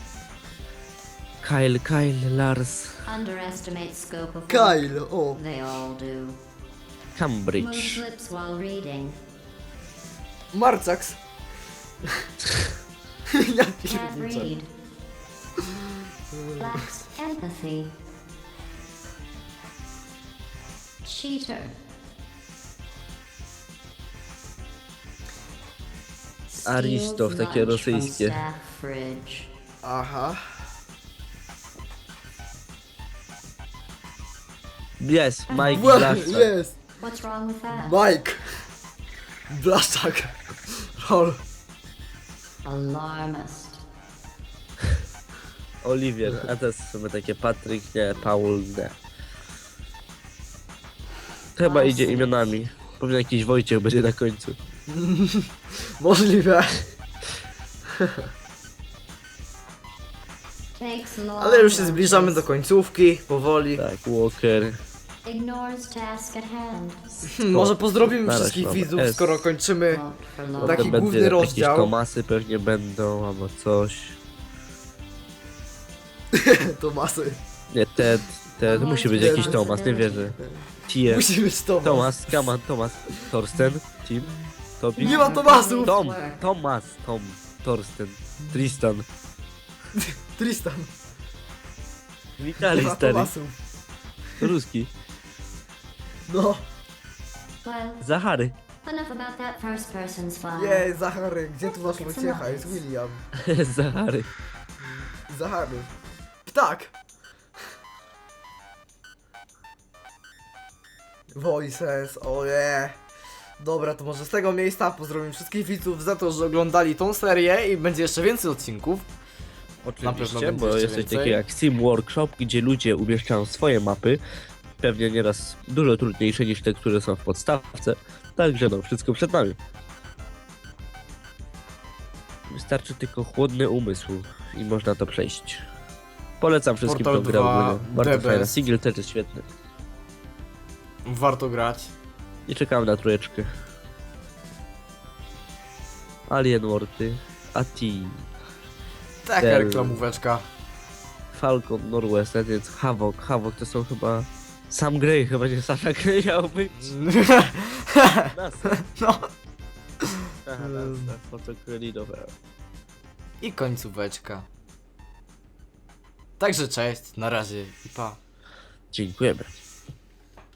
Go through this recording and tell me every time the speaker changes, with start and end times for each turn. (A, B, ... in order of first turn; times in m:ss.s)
0:01.4-0:03.0 A
0:03.0-0:06.4 B
0:04.5-0:05.4 C
0:07.2-0:08.0 A
0:07.6-0:09.2 B
0:10.5-0:11.2 C
0:13.3-0:14.5 C
0:13.8-0:14.7 B
0:16.3-0:16.8 C
0:16.6-0:17.9 B
0:21.0-0:21.8 B
0:26.5-0:29.5 B
0:26.6-0:28.4 A
0:29.8-0:30.6 C
0:35.0-0:36.5 A
0:35.5-0:35.9 B
0:35.5-0:36.8 C
0:37.0-0:38.0 B
0:37.7-0:38.6 C
0:39.5-0:41.4 C
0:42.6-0:43.8 B
0:45.8-0:49.0 A
0:51.6-0:54.6 A
0:51.6-0:52.4 B
0:54.9-0:56.9 C
1:00.8-1:02.5 B
1:01.4-1:03.8 C
1:03.8-1:04.8 A
1:05.2-1:07.3 B
1:07.3-1:10.0 C
1:07.4-1:09.4 A
1:09.9-1:11.0 B
1:10.6-1:14.2 A
1:10.6-1:11.9 C
1:16.3-1:17.4 C
1:17.7-1:20.4 A
1:18.6-1:20.5 B
1:18.7-1:19.7 C
1:20.9-1:21.3 A
1:21.1-1:22.5 C
1:21.8-1:24.3 A
1:24.8-1:29.1 A
1:25.0-1:26.4 B
1:25.0-1:26.0 C
1:30.0-1:30.9 C
1:32.4-1:33.3 A
1:32.6-1:33.6 C
1:34.4-1:34.9 A
1:36.3-1:36.6 C
1:37.6-1:38.0 B
1:38.0-1:38.5 A
1:38.8-1:41.0 B
1:40.6-1:43.2 C
1:41.8-1:42.8 B
1:43.4-1:44.3 A
1:44.8-1:45.9 C
1:46.5-1:46.9 C
1:51.3-1:53.0 C
1:53.6-1:59.1 C
1:59.8-2:04.2 A
2:00.0-2:01.4 C
2:04.8-2:09.6 A
2:12.5-2:15.7 A
2:16.4-2:19.5 A
2:16.8-2:18.5 C
2:21.0-2:21.9 C
2:22.5-2:23.5 A
2:26.3-2:28.2 A
2:29.2-2:30.4 C
2:29.4-2:30.0 A
2:31.3-2:37.0 A
2:36.7-2:39.3 C
2:38.3-2:38.8 A
2:40.0-2:41.1 C
2:40.5-2:42.3 A
2:43.4-2:44.5 C
2:46.4-2:48.2 C
2:48.9-2:49.5 A